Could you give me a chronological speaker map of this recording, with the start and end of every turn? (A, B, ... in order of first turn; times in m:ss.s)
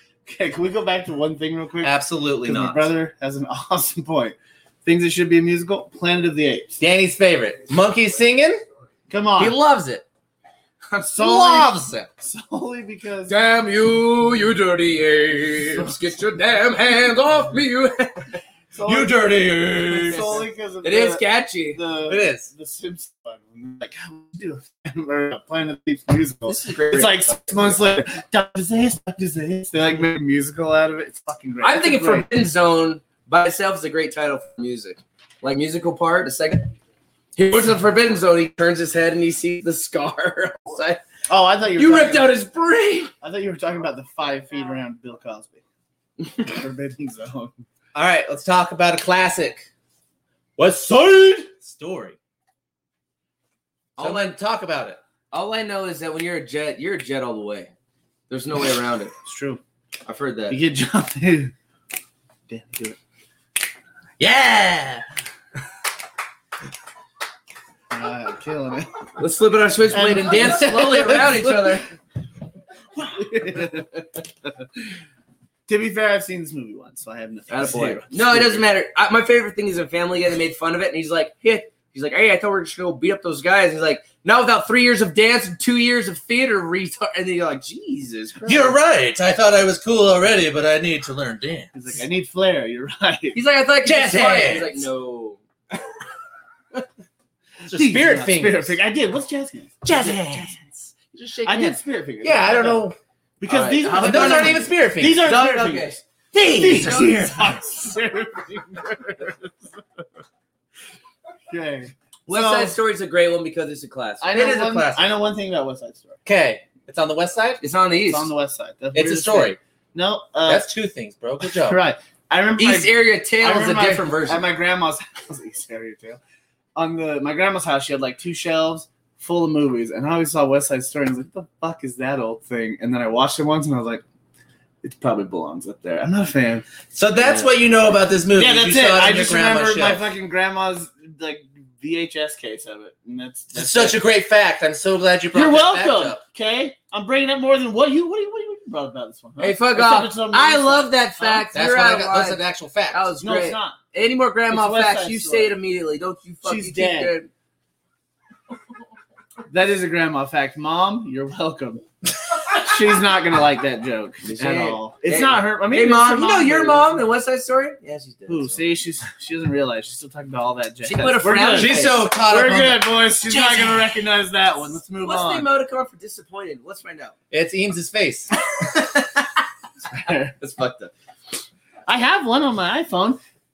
0:00.2-0:06.8 A
0:01.8-0:02.8 B
0:06.8-0:08.6 B
0:09.1-0:09.6 A
0:09.4-0:10.0 B
0:10.9-0:11.3 C
0:11.1-0:13.3 A
0:11.2-0:12.1 B
0:13.3-0:18.4 C
0:18.7-0:32.3 A
0:18.8-0:20.4 B
0:20.0-0:21.8 C
0:22.1-0:22.5 B
0:26.5-0:27.3 C
0:31.6-0:36.7 C
0:37.4-0:41.0 C
0:41.3-0:42.4 A
0:41.8-0:43.1 C
0:43.2-0:45.6 A
0:46.4-0:47.5 A
0:47.9-0:49.6 B
0:50.6-0:52.2 B
0:54.0-0:54.3 C
0:54.0-0:55.0 B
0:55.3-0:57.7 C
0:58.3-0:59.1 C
0:59.2-0:59.6 A
1:00.0-1:00.6 C
1:00.5-1:01.5 A
1:02.5-1:03.0 A
1:04.2-1:05.0 B
1:07.9-1:08.9 A
1:09.2-1:11.9 C
1:09.9-1:11.8 A
1:12.9-1:14.0 A
1:15.7-1:18.6 A
1:17.5-1:28.7 C
1:28.4-1:31.7 B
1:31.7-1:33.4 A
1:33.3-1:35.4 C
1:33.8-1:34.8 B
1:37.6-1:38.8 B
1:37.6-1:40.7 A
1:39.8-1:40.6 B
1:41.1-1:43.0 B
1:41.4-1:42.9 A
1:43.4-1:49.7 A
1:43.5-1:46.0 C
1:44.0-1:45.3 B
1:46.3-1:47.6 B
1:51.5-1:52.7 A
1:52.3-1:54.3 C
1:54.2-1:56.2 A
1:54.3-1:55.1 B
1:56.2-1:57.6 B
1:57.6-1:58.3 C
1:58.1-2:00.7 A
1:58.9-1:59.6 B
2:00.4-2:01.8 B
2:01.5-2:06.2 A
2:02.6-2:04.4 C
2:06.8-2:14.0 A
2:14.8-2:16.6 A
2:16.9-2:20.0 B
2:18.3-2:24.0 A
2:23.5-2:26.2 B
2:25.3-2:31.5 A
2:29.4-2:37.3 C
2:31.5-2:33.1 B
2:33.2-2:33.8 A
2:34.5-2:35.5 A
2:36.4-2:37.1 A
2:39.5-2:41.8 A
2:42.4-2:47.0 A
2:44.2-2:48.6 C
2:48.3-2:55.5 A
2:50.8-2:52.0 C
2:51.5-2:53.7 B
2:55.0-2:57.1 C
2:57.3-2:58.3 B
2:59.9-3:00.3 A
3:00.4-3:00.9 C
3:01.9-3:03.2 A